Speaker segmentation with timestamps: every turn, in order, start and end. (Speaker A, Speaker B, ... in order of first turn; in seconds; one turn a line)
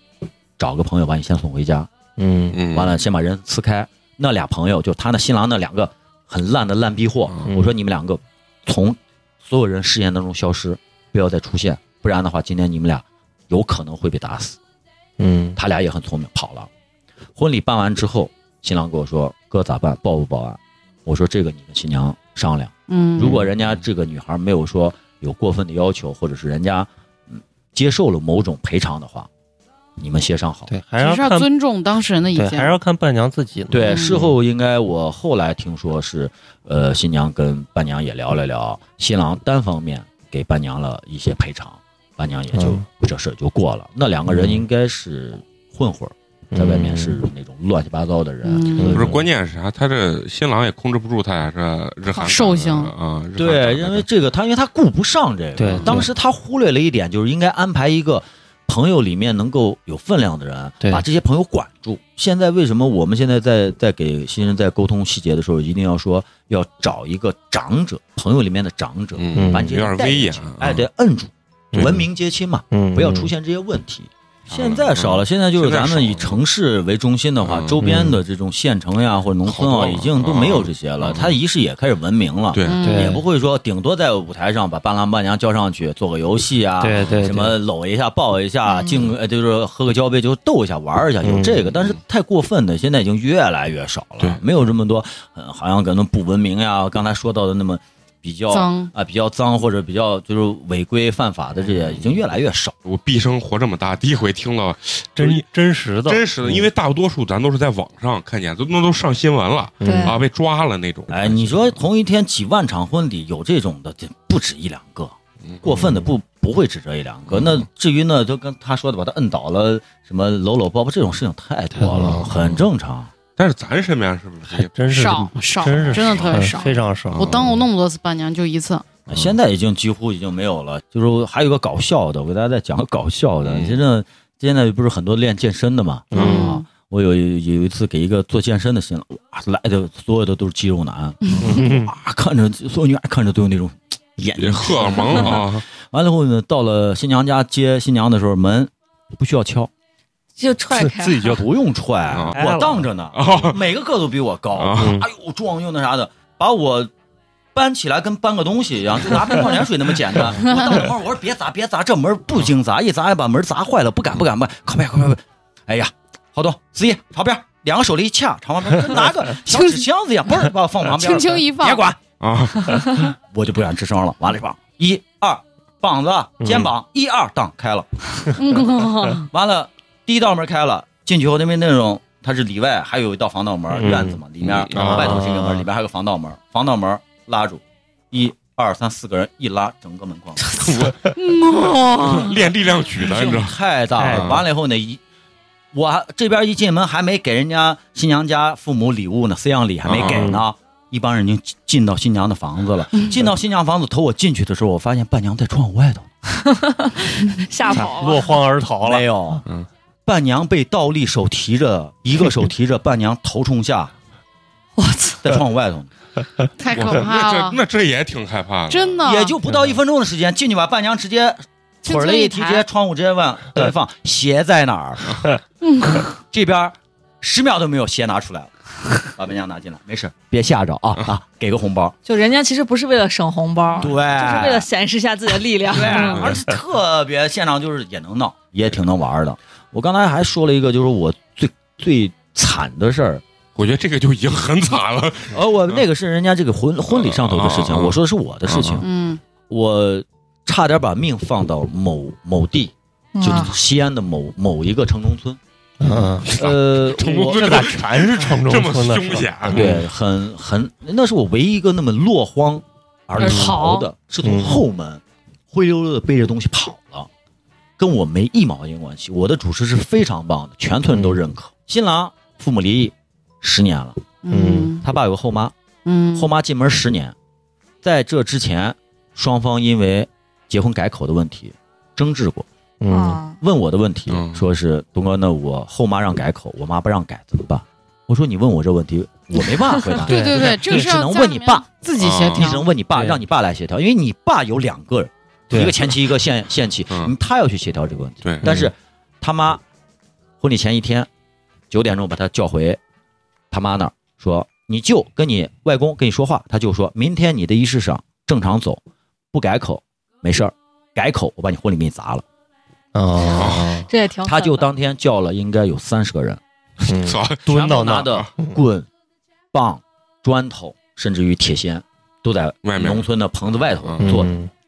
Speaker A: 0.6-1.9
Speaker B: 2.2-2.6
Speaker C: 2.5-3.0
Speaker A: 2.7-14.6
Speaker B: 15.2-15.6
Speaker A: 15.6-16.7
Speaker A: 17.4-29.3
Speaker D: 22.9-23.4
Speaker A: 30.0-30.7
Speaker B: 30.7-31.5
Speaker D: 31.0-32.8
Speaker B: 32.3-34.2
Speaker A: 33.7-49.2
Speaker D: 33.8-34.3
Speaker B: 42.5-42.8
Speaker B: 44.3-44.6
Speaker B: 46.5-47.2
Speaker D: 48.4-49.0
Speaker B: 48.8-49.2
Speaker C: 48.8-54.0
Speaker D: 52.2-52.9
Speaker A: 53.4-102.7
Speaker B: 55.6-56.1
Speaker C: 69.2-70.8
Speaker B: 69.3-69.7
Speaker B: 71.7-72.0
Speaker B: 72.7-73.3
Speaker C: 74.5-76.4
Speaker C: 77.4-77.8
Speaker B: 77.8-78.2
Speaker C: 79.4-81.3
Speaker C: 82.5-82.9
Speaker D: 82.6-83.2
Speaker B: 82.8-83.2
Speaker B: 86.8-87.6
Speaker E: 88.7-88.9
Speaker B: 91.2-91.6
Speaker D: 98.5-98.9
Speaker C: 102.8-105.5
Speaker B: 105.2-106.7
Speaker C: 106.0-111.7
Speaker B: 109.8-110.2
Speaker E: 109.8-110.2
Speaker A: 111.1-123.1
Speaker C: 115.5-115.9
Speaker C: 117.3-117.7
Speaker B: 121.8-122.3
Speaker C: 123.3-124.8
Speaker B: 124.6-127.3
Speaker D: 124.9-128.9
Speaker C: 125.8-126.5
Speaker C: 127.1-127.6
Speaker A: 129.1-149.7
Speaker C: 133.4-133.8
Speaker B: 136.1-136.5
Speaker C: 136.2-136.5
Speaker D: 136.2-136.6
Speaker B: 141.4-141.9
Speaker C: 144.4-145.6
Speaker E: 150.4-151.3
Speaker B: 150.7-151.5
Speaker A: 151.3-156.9
Speaker C: 152.1-152.4
Speaker B: 152.3-152.8
Speaker C: 153.1-153.6
Speaker C: 154.6-155.0
Speaker B: 154.8-155.1
Speaker A: 157.5-172.0
Speaker D: 160.4-160.9
Speaker D: 169.5-169.8
Speaker D: 170.9-171.8
Speaker C: 172.2-173.1
Speaker A: 173.2-177.9
Speaker B: 176.4-176.7
Speaker D: 178.4-179.3
Speaker A: 179.2-190.9
Speaker B: 183.7-184.2
Speaker C: 184.4-185.3
Speaker B: 184.7-185.6
Speaker C: 190.6-193.5
Speaker D: 191.2-192.5
Speaker A: 193.0-195.0
Speaker B: 194.0-194.4
Speaker C: 194.1-194.4
Speaker A: 195.7-206.1
Speaker C: 199.8-200.3
Speaker B: 200.0-200.4
Speaker E: 206.4-208.3
Speaker B: 207.7-209.4
Speaker A: 208.8-209.4
Speaker A: 210.1-213.9
Speaker E: 214.8-215.2
Speaker A: 215.2-215.9
Speaker D: 216.6-217.6
Speaker C: 216.7-219.0
Speaker D: 218.7-219.3
Speaker A: 219.0-225.2
Speaker D: 221.8-222.6
Speaker D: 225.6-226.1
Speaker A: 226.2-231.9
Speaker E: 232.1-236.3
Speaker A: 233.8-234.7
Speaker A: 235.7-243.2
Speaker C: 236.1-236.4
Speaker C: 243.6-245.8
Speaker A: 245.3-248.8
Speaker C: 246.9-248.8
Speaker D: 248.8-249.2
Speaker A: 249.5-255.4
Speaker E: 253.1-253.6
Speaker B: 255.8-256.3
Speaker C: 256.2-259.8
Speaker A: 256.2-257.7
Speaker B: 257.1-259.8
Speaker A: 259.5-267.1
Speaker B: 263.2-263.6
Speaker D: 263.2-263.8
Speaker E: 263.2-263.6
Speaker B: 264.2-264.6
Speaker A: 267.8-274.0
Speaker B: 270.9-271.2
Speaker D: 274.2-274.8
Speaker B: 274.3-274.7
Speaker A: 274.8-275.5
Speaker D: 275.8-276.3
Speaker A: 276.1-277.1
Speaker A: 277.8-282.5
Speaker B: 282.8-283.2
Speaker E: 282.9-283.4
Speaker A: 283.4-291.6
Speaker C: 284.1-284.4
Speaker D: 290.0-292.6
Speaker B: 290.1-290.9
Speaker C: 292.0-292.5
Speaker A: 292.3-299.6
Speaker B: 292.9-293.2
Speaker B: 295.5-295.8
Speaker C: 298.2-298.5
Speaker B: 298.4-298.7
Speaker A: 300.4-301.1
Speaker A: 301.7-302.8
Speaker A: 303.5-308.8
Speaker A: 309.3-312.2
Speaker B: 312.9-313.9
Speaker E: 313.2-314.7
Speaker C: 313.3-313.8
Speaker A: 314.2-316.4
Speaker B: 316.9-318.6
Speaker C: 316.9-317.5
Speaker A: 317.5-318.9
Speaker A: 319.5-324.3
Speaker C: 322.6-323.1
Speaker C: 323.8-324.1
Speaker B: 324.0-324.5